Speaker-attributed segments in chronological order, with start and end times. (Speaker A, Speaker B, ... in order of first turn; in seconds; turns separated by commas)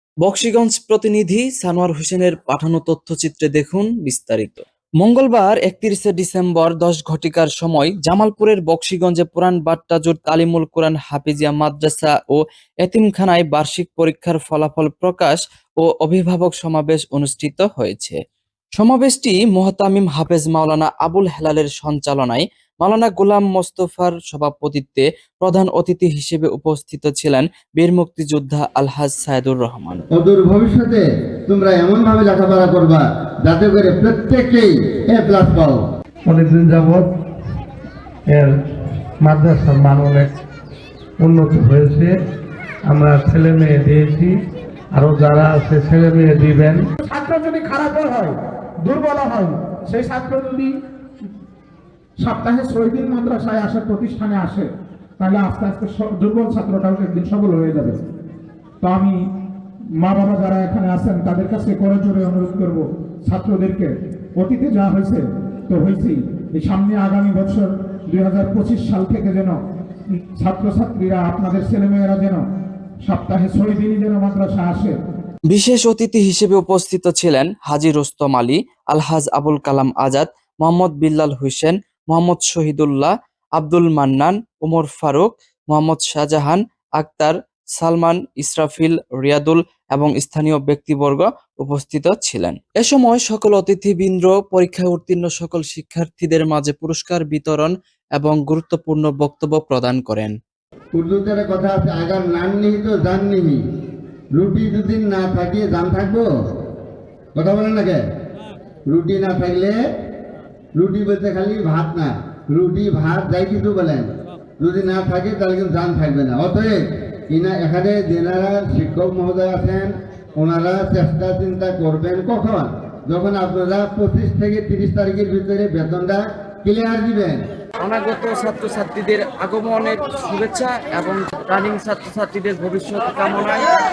Speaker A: 0.2-18.1, Speaker A: 18.8-30.0, Speaker B: 30.1-35.8, Speaker C: 36.3-37.1, Speaker C: 39.2-40.3, Speaker C: 41.2-42.1, Speaker C: 42.9-44.3, Speaker C: 45.0-46.8, Speaker D: 47.0-48.3, Speaker D: 48.8-50.7, Speaker D: 52.2-54.6, Speaker D: 55.2-58.0, Speaker D: 58.8-59.2, Speaker D: 60.0-69.5, Speaker D: 70.4-72.4, Speaker D: 73.0-75.0, Speaker A: 75.5-100.3, Speaker B: 100.9-103.6, Speaker B: 104.3-106.2, Speaker B: 107.3-108.0, Speaker B: 108.9-109.7, Speaker B: 110.8-114.1, Speaker B: 114.6-127.4, Speaker A: 127.8-133.7